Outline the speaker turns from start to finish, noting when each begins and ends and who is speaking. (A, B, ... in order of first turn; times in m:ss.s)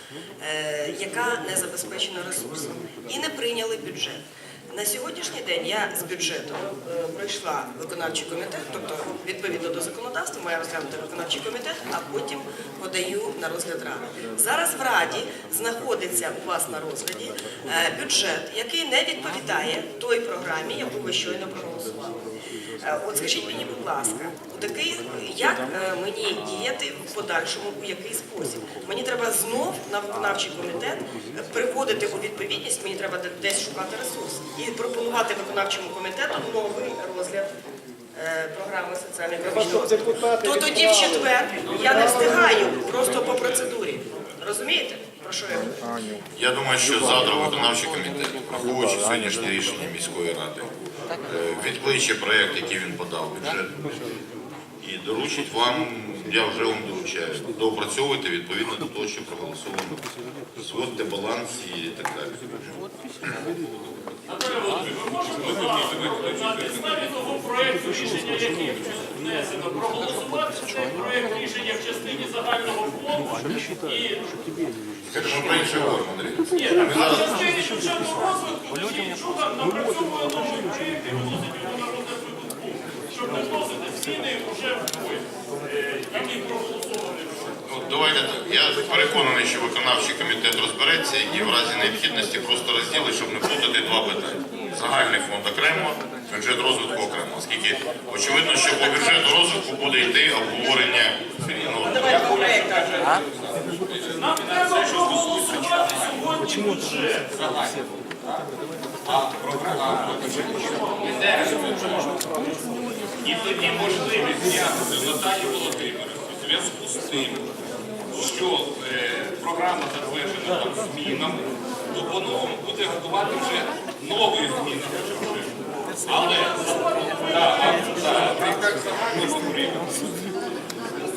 0:00.4-0:22.2 A
0:22.8-0:37.5 A
0:38.1-0:46.2 A
0:46.3-0:54.0 B
0:54.8-1:03.4 B
1:04.2-1:14.4 C
1:05.3-1:07.0 D
1:15.1-1:17.4 B
1:16.6-1:27.5 C
1:27.6-1:42.5 B
1:41.7-1:46.2 D
1:44.2-1:47.3 C
1:47.3-1:48.4 D
1:49.0-1:52.3 D
1:50.7-1:51.1 C
1:53.2-1:57.5 D
1:58.1-2:10.2 D
2:06.7-2:08.3 C